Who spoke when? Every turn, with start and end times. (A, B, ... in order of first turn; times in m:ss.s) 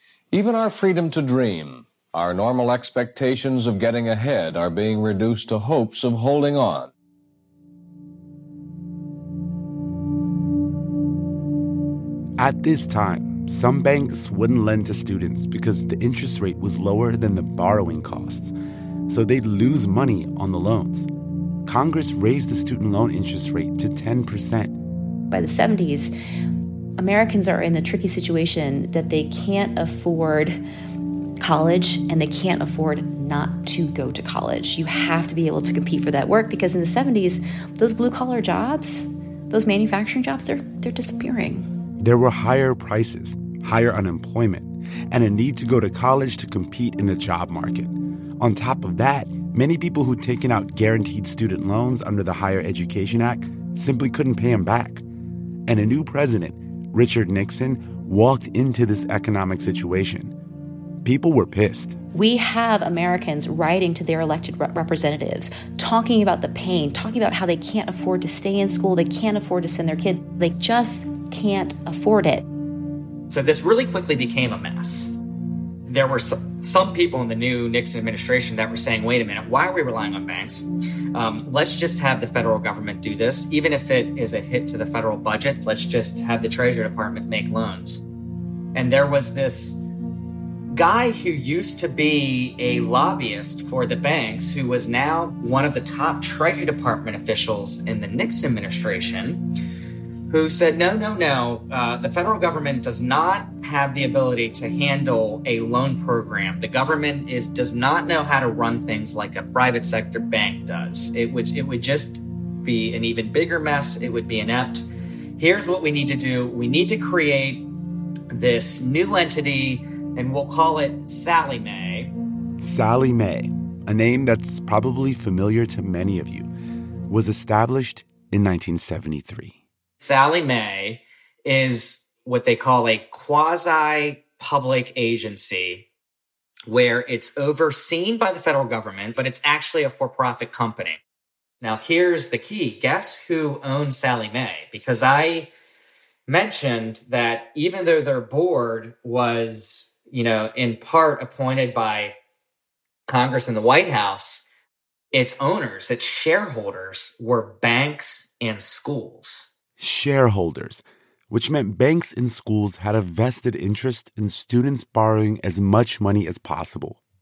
0:00.3-0:06.9 A
0:12.4-0:18.5 B
0:19.1-0:21.1 B
0:21.7-0:24.7 B
0:25.3-0:26.1 C
0:27.0-0:30.6 C
0:31.4-0:41.7 C
0:42.0-0:55.0 B
0:55.7-1:00.3 B
1:01.0-1:02.0 B
1:02.1-1:12.4 C
1:13.3-1:15.1 D
1:15.9-1:28.0 D
1:28.8-1:29.8 D
1:30.7-1:39.4 D
1:40.3-1:54.8 D
1:55.4-1:57.6 D
1:58.3-2:02.1 D
2:02.6-2:06.5 B
2:07.1-2:09.6 B
2:10.0-2:15.9 D
2:16.7-2:21.0 D
2:21.6-2:25.5 D
2:26.3-2:32.2 D
2:33.1-2:34.4 D
2:35.1-2:39.5 D
2:39.8-2:47.0 B